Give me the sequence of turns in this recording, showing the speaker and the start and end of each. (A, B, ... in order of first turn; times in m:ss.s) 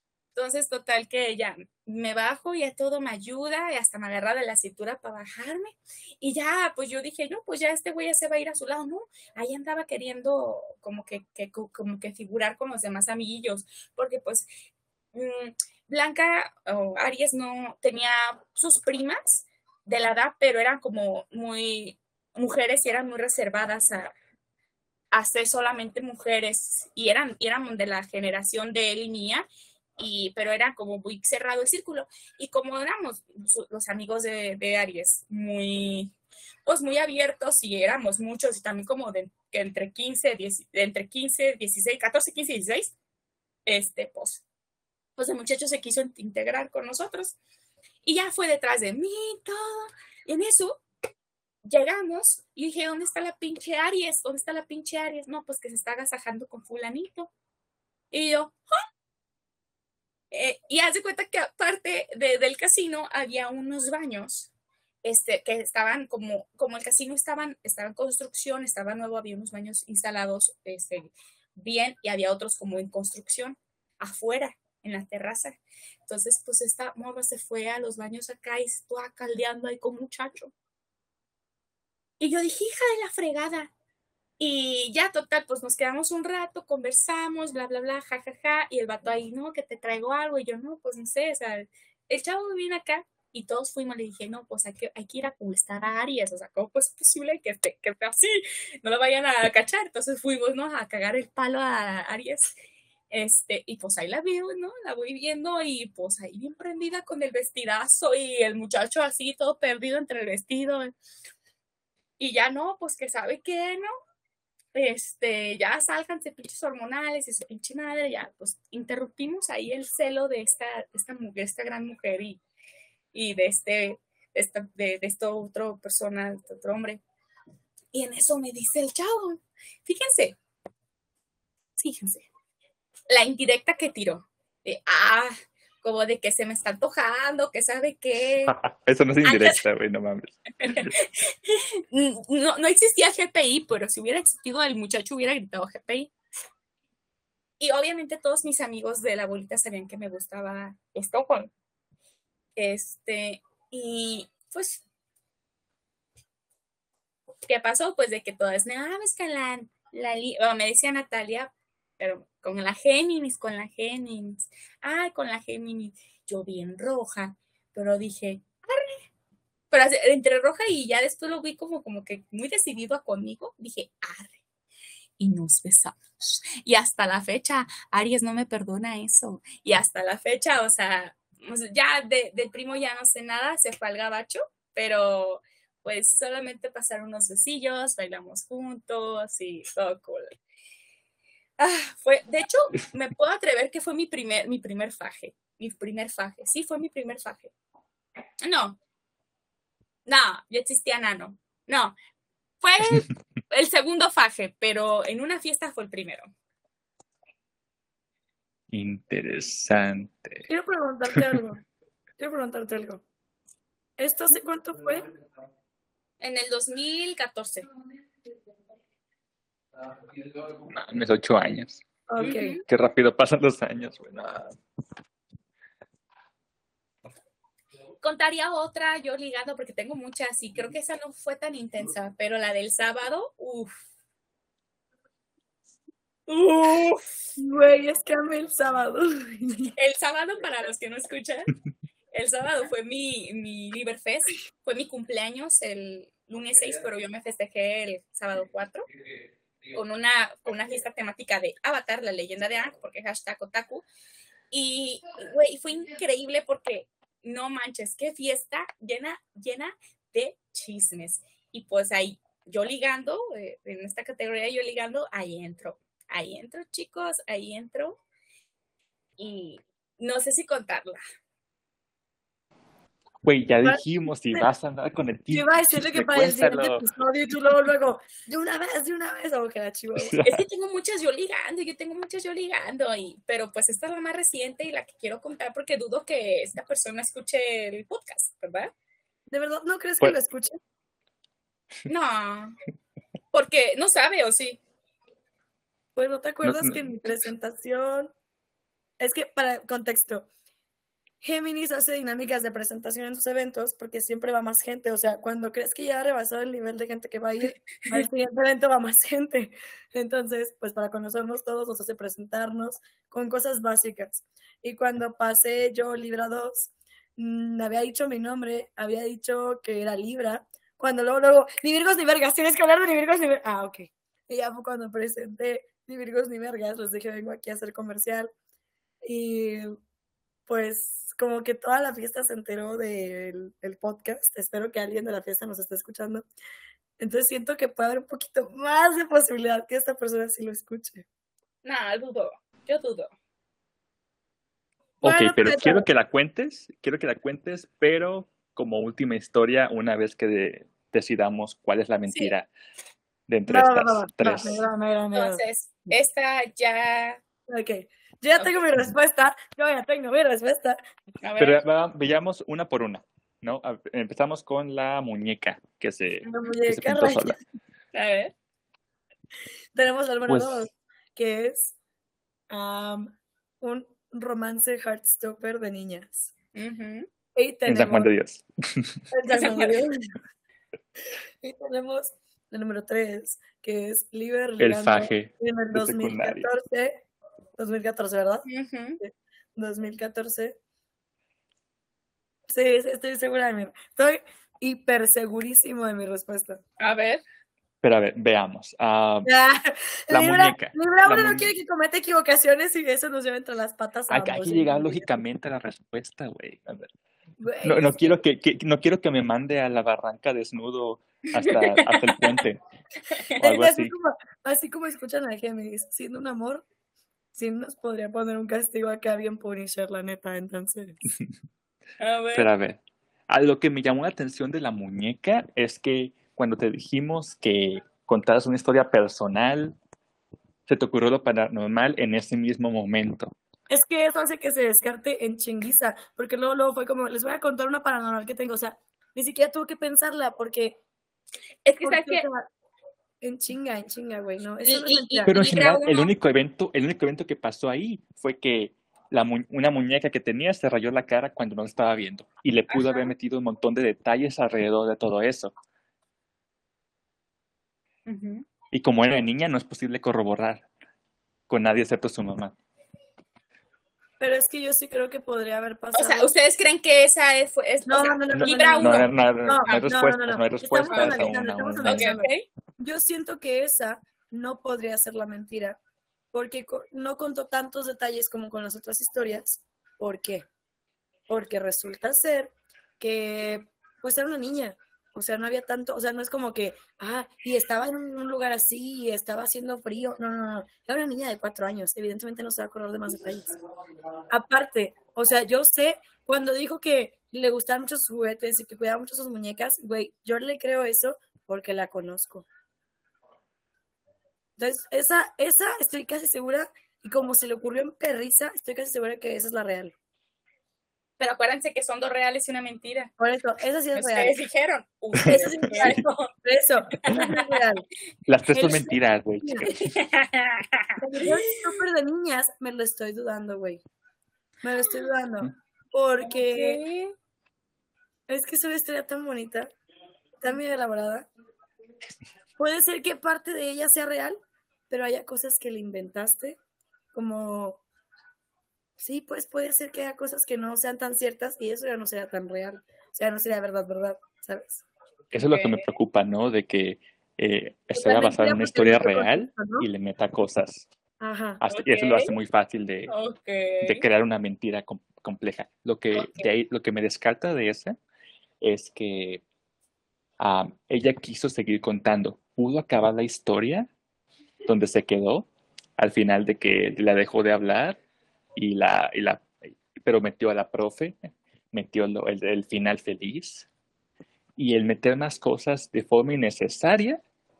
0:00.3-0:14.4 A
0:15.1-0:24.1 A
0:25.1-0:36.1 A
0:36.6-0:42.9 A
0:43.6-0:44.4 A
0:45.2-0:47.4 A
0:48.0-0:50.8 A
0:51.6-0:57.3 A
0:58.1-0:58.5 A
1:00.3-1:04.5 A
1:05.0-1:20.5 A
1:22.2-1:23.7 A
1:24.4-1:42.5 A
1:43.1-1:50.9 A
1:52.2-1:53.9 A
1:54.7-2:02.4 A
2:03.1-2:07.0 A
2:07.9-2:10.4 A
2:11.8-2:12.3 A
2:13.1-2:15.3 A
2:15.8-2:18.5 A
2:18.5-2:20.9 B
2:19.2-2:19.6 A
2:20.6-2:26.1 A
2:27.6-2:31.5 A
2:32.6-2:34.8 A
2:37.4-2:48.9 A
2:49.7-2:54.4 A
2:55.2-3:10.3 A
3:11.6-3:17.5 A
3:18.4-3:18.8 A
3:20.0-3:21.9 A
3:22.6-3:26.3 A
3:28.7-3:30.5 B
3:30.5-3:31.6 C
3:31.1-3:31.4 B
3:32.2-3:33.0 C
3:34.0-3:35.1 C
3:36.2-3:37.7 A
3:40.4-3:41.8 B
3:42.1-3:42.6 C
3:42.2-3:42.6 A
3:42.6-3:44.6 B
3:48.0-3:53.8 A
3:56.3-3:57.1 A
3:57.4-3:59.7 C
3:59.8-4:01.5 A
4:02.1-4:08.9 A
4:09.7-4:13.8 A
4:14.5-4:28.0 A
4:29.2-4:31.0 A
4:33.2-4:36.8 B
4:35.3-4:40.2 C
4:40.0-4:40.4 B
4:40.2-4:48.7 A
4:49.3-4:50.6 C
4:51.8-4:52.6 A
4:53.3-4:54.6 A
4:56.0-4:58.1 C
4:56.4-4:56.8 B
4:59.0-5:00.3 C
5:01.2-5:28.3 C
5:29.0-5:29.8 C
5:30.5-5:36.2 C
5:37.0-5:41.0 C
5:41.6-5:43.1 A
5:45.0-5:52.5 B
5:45.0-5:45.8 C
5:53.3-5:54.6 B
5:53.5-5:55.4 C
5:55.1-5:57.2 A
5:57.5-6:00.8 C
6:01.2-6:01.6 A
6:01.4-6:07.4 B
6:06.2-6:07.4 C
6:07.9-6:08.3 A
6:09.7-6:11.8 C
6:10.3-6:10.6 B
6:12.5-6:16.3 C
6:16.5-6:17.1 A
6:17.4-6:18.1 C
6:17.7-6:19.0 B
6:19.1-6:20.0 C
6:19.3-6:19.7 A
6:21.4-6:27.0 C
6:24.6-6:26.5 B
6:27.6-6:28.5 C
6:28.4-6:29.0 A
6:29.0-6:30.6 C
6:32.5-6:36.6 C
6:36.8-6:37.2 A
6:37.8-6:39.3 B
6:39.2-6:45.2 C
6:40.1-6:41.5 B
6:44.1-6:46.9 B
6:47.4-6:48.1 C
6:47.6-6:52.6 B
6:51.3-6:52.3 A
6:53.4-6:53.9 B
6:53.4-6:56.6 C
6:57.3-7:01.1 C
7:02.0-7:02.5 A
7:02.3-7:09.8 B
7:10.7-7:13.3 B
7:13.7-7:20.8 C
7:21.6-7:22.2 A
7:21.8-7:22.5 C
7:23.2-7:25.3 C
7:24.6-7:26.1 A
7:25.2-7:35.5 B
7:32.7-7:33.1 A
7:38.0-7:38.4 A
7:38.7-7:40.7 B
7:41.5-7:42.5 B
7:44.2-7:46.3 C
7:45.9-7:49.1 A
7:47.8-7:55.8 C
7:48.3-7:52.1 B
7:49.6-7:49.9 A
7:50.9-7:51.3 A
7:51.8-7:52.4 A
7:56.3-8:00.5 C
8:01.3-8:13.5 C
8:14.3-8:22.4 C
8:24.6-8:29.9 C
8:31.2-8:33.1 A
8:33.2-8:34.4 C
8:33.9-8:36.3 A
8:35.2-8:36.1 B
8:35.2-8:37.8 C
8:36.9-8:37.6 A
8:38.3-8:39.9 B
8:38.5-8:39.7 C
8:39.7-8:41.3 A
8:41.0-8:43.8 C
8:44.6-8:46.8 C
8:46.2-8:47.1 A
8:48.3-8:49.7 C
8:50.4-8:51.3 C
8:52.6-8:56.6 C
8:57.1-8:57.8 C
8:59.0-9:04.8 C
9:05.3-9:10.9 B
9:05.5-9:05.8 A
9:07.9-9:09.9 C
9:11.2-9:11.6 C
9:11.6-9:13.1 B
9:11.7-9:12.3 A
9:13.1-9:14.0 A
9:13.8-9:18.0 B
9:16.1-9:16.5 A
9:18.6-9:19.4 B
9:20.4-9:23.9 B
9:24.6-9:28.0 B
9:28.5-9:33.7 B
9:34.6-9:37.2 B